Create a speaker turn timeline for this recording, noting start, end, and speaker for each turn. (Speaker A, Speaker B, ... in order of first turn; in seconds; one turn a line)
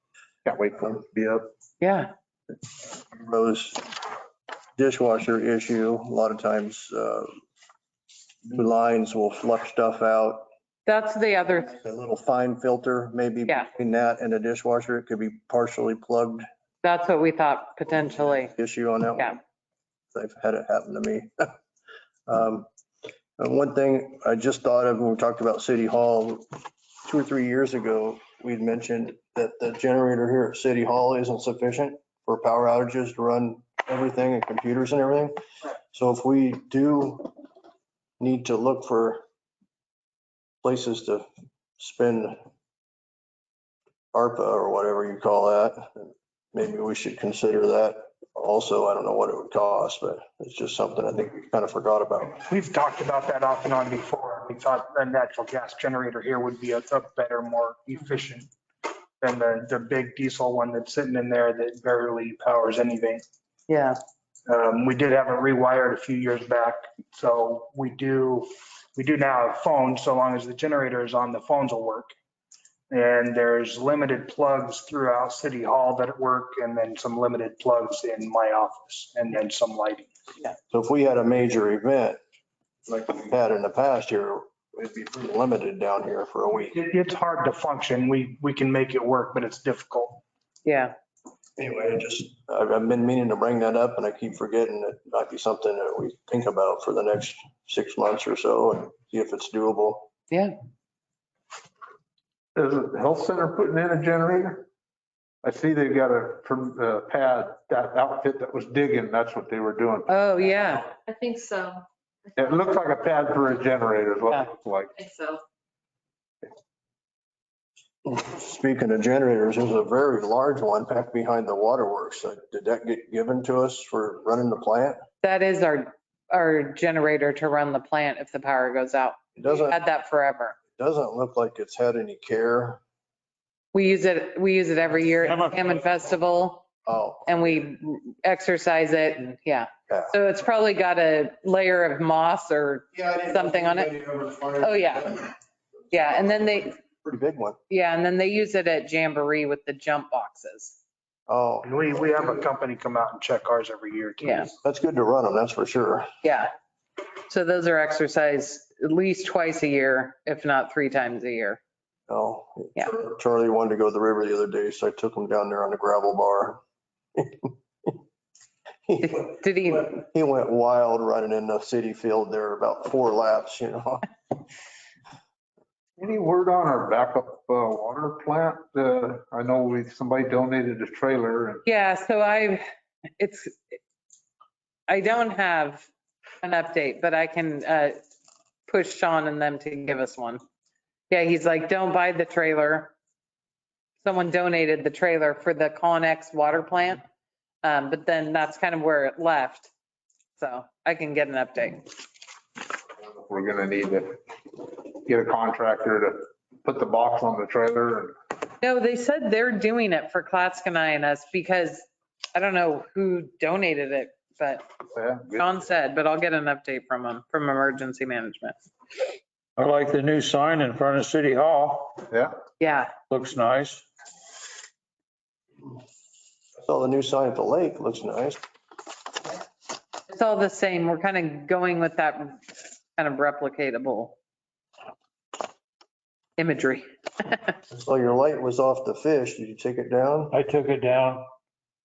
Speaker A: 0.5-1.4
Speaker B: 1.8-2.1
Speaker C: 3.0-3.9
Speaker C: 4.8-7.3
Speaker C: 8.5-10.5
Speaker B: 10.9-11.7
Speaker C: 11.8-16.5
Speaker B: 16.8-18.5
Speaker C: 18.2-19.4
Speaker C: 20.1-21.5
Speaker C: 22.3-22.7
Speaker C: 23.4-26.5
Speaker C: 27.1-35.4
Speaker C: 35.9-37.3
Speaker C: 38.2-39.2
Speaker C: 40.6-41.3
Speaker C: 41.8-42.4
Speaker C: 44.1-52.4
Speaker D: 52.4-58.5
Speaker D: 59.2-63.2
Speaker B: 63.7-64.0
Speaker D: 64.5-72.1
Speaker D: 72.9-80.1
Speaker C: 80.7-82.2
Speaker C: 82.9-86.8
Speaker D: 86.7-90.2
Speaker B: 90.7-91.0
Speaker C: 91.6-100.1
Speaker A: 102.5-104.7
Speaker A: 105.4-110.2
Speaker B: 110.1-110.9
Speaker E: 111.0-113.0
Speaker A: 112.4-114.9
Speaker E: 115.0-115.4
Speaker C: 118.0-125.0
Speaker B: 125.2-130.6
Speaker C: 129.4-129.8
Speaker C: 130.8-132.8
Speaker B: 133.7-136.7
Speaker F: 135.2-135.9
Speaker C: 136.9-137.6
Speaker B: 137.3-143.9
Speaker C: 139.9-140.2
Speaker C: 142.9-145.3
Speaker B: 144.6-145.2
Speaker B: 145.9-146.7
Speaker C: 146.0-147.6
Speaker B: 147.7-150.8
Speaker C: 151.3-151.8
Speaker D: 151.7-154.5
Speaker B: 154.2-154.5
Speaker C: 154.6-156.1
Speaker B: 156.2-156.5
Speaker B: 157.3-161.6
Speaker C: 162.1-166.6
Speaker C: 167.2-167.9
Speaker C: 168.9-174.1
Speaker B: 169.0-169.9
Speaker A: 176.0-181.6
Speaker B: 181.7-182.6
Speaker B: 183.2-183.8
Speaker B: 184.9-185.9
Speaker B: 186.4-188.0
Speaker B: 188.7-190.4
Speaker B: 191.1-192.9
Speaker B: 194.0-197.0
Speaker B: 197.6-199.7
Speaker B: 200.4-201.9
Speaker A: 203.0-208.2
Speaker B: 208.6-214.7
Speaker A: 214.9-215.6
Speaker B: 215.3-218.6
Speaker F: 219.6-222.0
Speaker B: 222.6-222.9
Speaker F: 223.1-223.8
Speaker C: 226.6-228.4
Speaker B: 230.1-234.2
Speaker B: 236.4-237.5
Speaker C: 237.7-240.4
Speaker F: 240.3-241.3